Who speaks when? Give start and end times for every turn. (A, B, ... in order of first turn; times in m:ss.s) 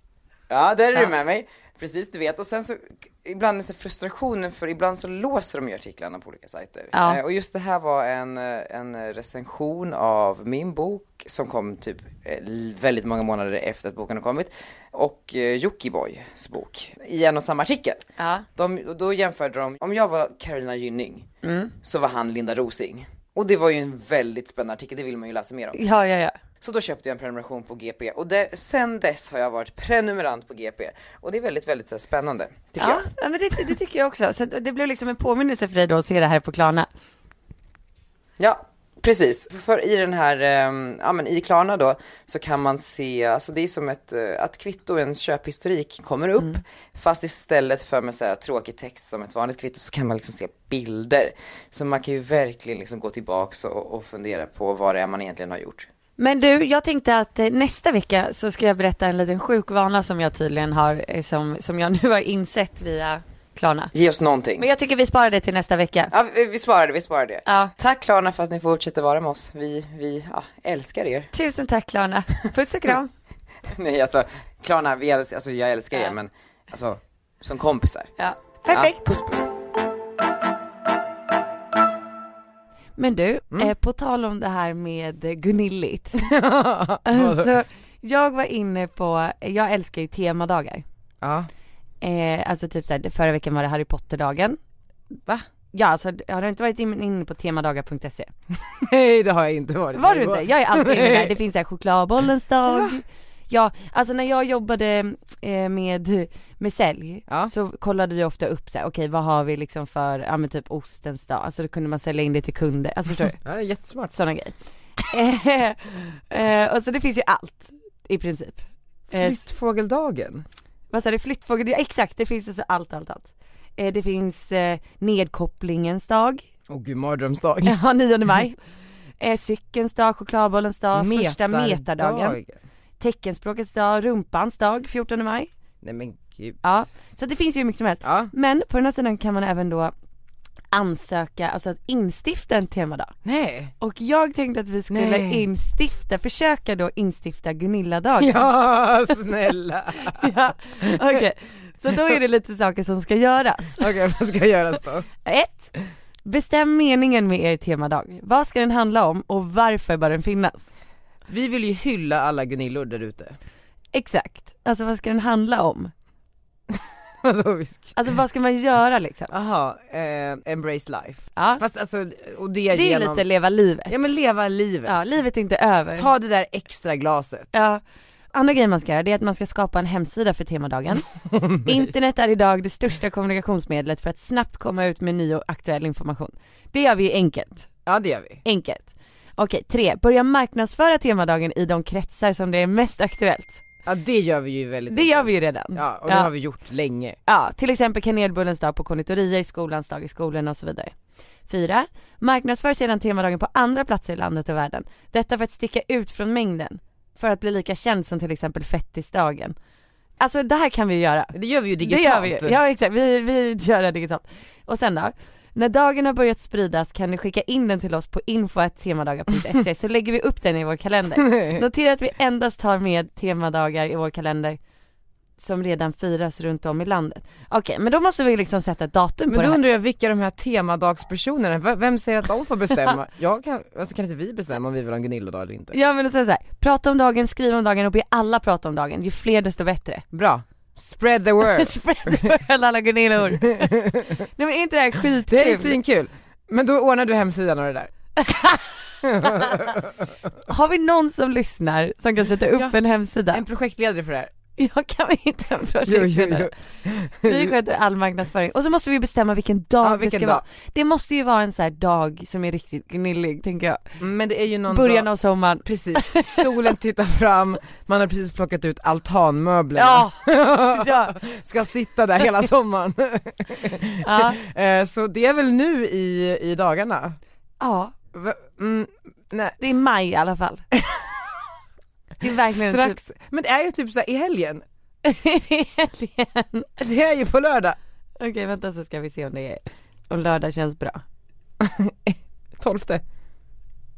0:00.5-0:18.0 A
0:06.9-0:07.2 B
0:18.2-0:18.5 B
0:18.6-0:21.3 A
0:21.4-0:21.7 B
0:21.8-0:25.8 A
0:25.7-0:26.4 B
0:26.6-0:33.1 A
0:32.8-0:36.9 B
0:38.4-0:55.9 A
0:56.2-1:03.9 B
1:03.9-1:04.6 A
1:04.6-1:06.1 B
1:06.1-1:11.3 A
1:07.5-1:07.7 B
1:11.3-1:13.1 B
1:13.7-1:18.1 A
1:18.2-1:19.0 B
1:18.7-1:19.5 A
1:23.0-1:26.2 B
1:26.2-1:27.5 A
1:27.1-1:30.8 B
1:31.2-1:31.5 A
1:32.0-1:34.6 B
1:35.7-1:38.3 B
1:38.7-1:41.4 A
1:39.9-1:53.4 B
1:42.7-1:43.0 A
1:53.4-1:54.1 A
1:54.1-1:54.5 B
1:55.1-1:59.4 B
1:59.1-2:00.4 A
2:00.9-2:06.4 B
2:06.7-2:07.8 A
2:07.6-2:08.6 B
2:09.2-2:12.4 B
2:10.9-2:12.6 A
2:13.0-2:15.5 B
2:15.8-2:16.6 A
2:16.6-2:19.9 B
2:18.0-2:18.3 A
2:20.7-2:23.1 B
2:23.2-2:23.7 A
2:23.8-2:28.5 B
2:24.9-2:25.5 A
2:28.2-2:31.2 A
2:30.0-2:33.9 B
2:33.8-2:35.1 A
2:35.2-2:35.7 B
2:36.2-2:40.7 B
2:41.3-2:43.4 A
2:43.9-2:45.9 B
2:46.7-2:48.0 A
2:48.0-2:49.3 B
2:49.3-2:53.2 A
2:51.4-2:51.6 B
2:52.7-2:53.9 B
2:53.9-2:55.0 A
2:54.8-2:56.1 B
2:56.0-2:57.5 A
2:57.5-2:57.8 B
2:58.3-3:01.1 B
3:01.3-3:01.7 A
3:01.6-3:07.7 B
3:07.9-3:08.4 A
3:08.4-3:13.6 B
3:13.8-3:17.2 A
3:14.9-3:16.3 B
3:17.3-3:20.9 B
3:21.5-3:29.6 B
3:30.2-3:44.6 B
3:31.3-3:32.6 A
3:41.2-3:41.6 A
3:45.4-3:49.6 B
3:49.3-3:55.8 A
3:55.7-4:00.0 B
4:00.1-4:02.3 A
4:01.4-4:03.8 B
4:03.4-4:04.2 A
4:04.4-4:05.8 B
4:05.3-4:07.9 A
4:08.2-4:08.6 B
4:09.0-4:10.0 A
4:09.2-4:09.5 B
4:10.5-4:13.4 B
4:12.5-4:12.8 A
4:13.3-4:14.3 A
4:14.6-4:16.5 B
4:15.8-4:17.6 A
4:17.2-4:23.8 B
4:19.8-4:20.4 A
4:24.0-4:25.1 A
4:24.7-4:26.5 B
4:25.6-4:37.2 A
4:29.8-4:31.2 B
4:34.0-4:34.4 B
4:37.6-4:37.9 B
4:38.1-4:39.6 A
4:39.6-4:40.6 B
4:40.8-4:41.1 A
4:42.2-4:43.0 B
4:42.2-4:44.6 A
4:45.0-4:46.7 B
4:46.8-4:47.8 A
4:48.2-4:51.0 B
4:51.6-4:53.0 A